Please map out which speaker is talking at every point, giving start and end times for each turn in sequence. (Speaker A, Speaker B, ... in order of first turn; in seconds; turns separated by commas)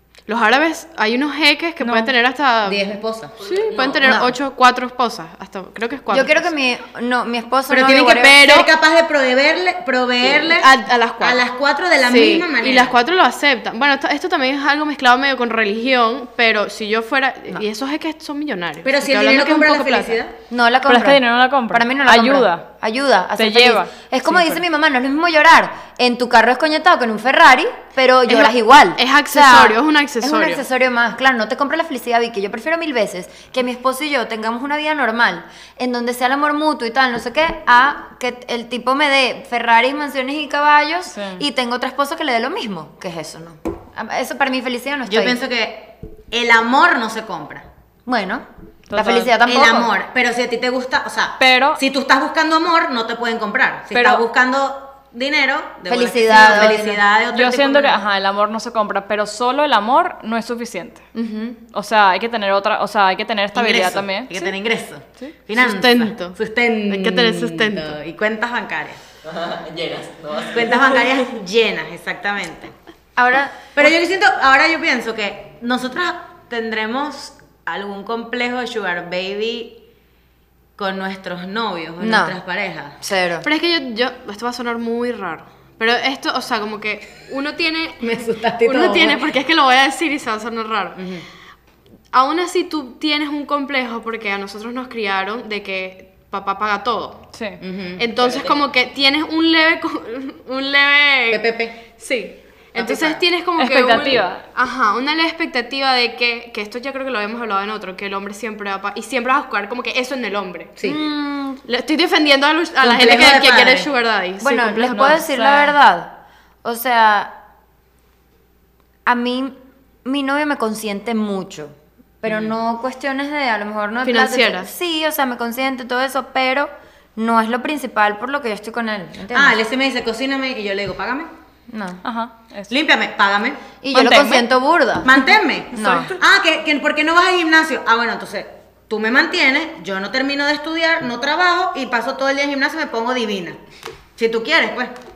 Speaker A: 0.3-6.5, Speaker B: 1.8-2.1, Speaker C: 2.6-3.3, Speaker D: 3.4-4.2, Speaker E: 4.0-4.3, Speaker E: 6.1-8.4, Speaker C: 7.7-10.7, Speaker A: 8.1-8.7, Speaker A: 10.3-11.4, Speaker C: 11.2-13.0, Speaker A: 12.0-20.2, Speaker C: 18.8-20.3, Speaker E: 20.5-45.4, Speaker B: 20.9-22.6, Speaker B: 23.4-24.6, Speaker A: 28.3-30.6, Speaker B: 41.1-41.4, Speaker C: 45.1-47.7, Speaker E: 48.0-49.9, Speaker B: 48.9-49.3, Speaker C: 49.4-58.0, Speaker B: 51.4-51.8, Speaker B: 53.9-54.2, Speaker E: 55.9-57.0, Speaker B: 57.3-61.0, Speaker E: 61.1-61.6, Speaker B: 61.7-64.3, Speaker C: 63.5-69.0, Speaker A: 65.5-66.4, Speaker A: 66.9-68.0, Speaker D: 69.2-71.2, Speaker C: 70.4-72.7, Speaker E: 73.2-73.9, Speaker C: 73.7-79.8, Speaker C: 80.8-83.0, Speaker E: 82.0-82.3, Speaker E: 83.0-83.5, Speaker A: 83.4-88.1, Speaker C: 88.0-89.2, Speaker A: 88.6-91.0, Speaker C: 91.0-91.2, Speaker A: 92.1-97.2, Speaker B: 97.3-97.6, Speaker C: 97.6-98.0, Speaker A: 98.0-110.7, Speaker D: 98.1-98.5, Speaker C: 101.3-101.8, Speaker C: 102.8-103.2, Speaker B: 103.6-104.4, Speaker C: 110.8-111.0, Speaker E: 110.8-111.6, Speaker A: 111.7-115.2, Speaker C: 112.8-113.9, Speaker E: 114.4-117.3, Speaker B: 114.9-115.8, Speaker E: 119.0-129.6, Speaker C: 122.2-122.5, Speaker A: 124.0-124.7, Speaker C: 129.3-131.3, Speaker E: 131.7-132.0, Speaker B: 132.0-132.7, Speaker C: 132.7-133.6, Speaker E: 133.8-136.1, Speaker B: 133.9-134.5, Speaker C: 135.0-143.6, Speaker C: 144.2-144.9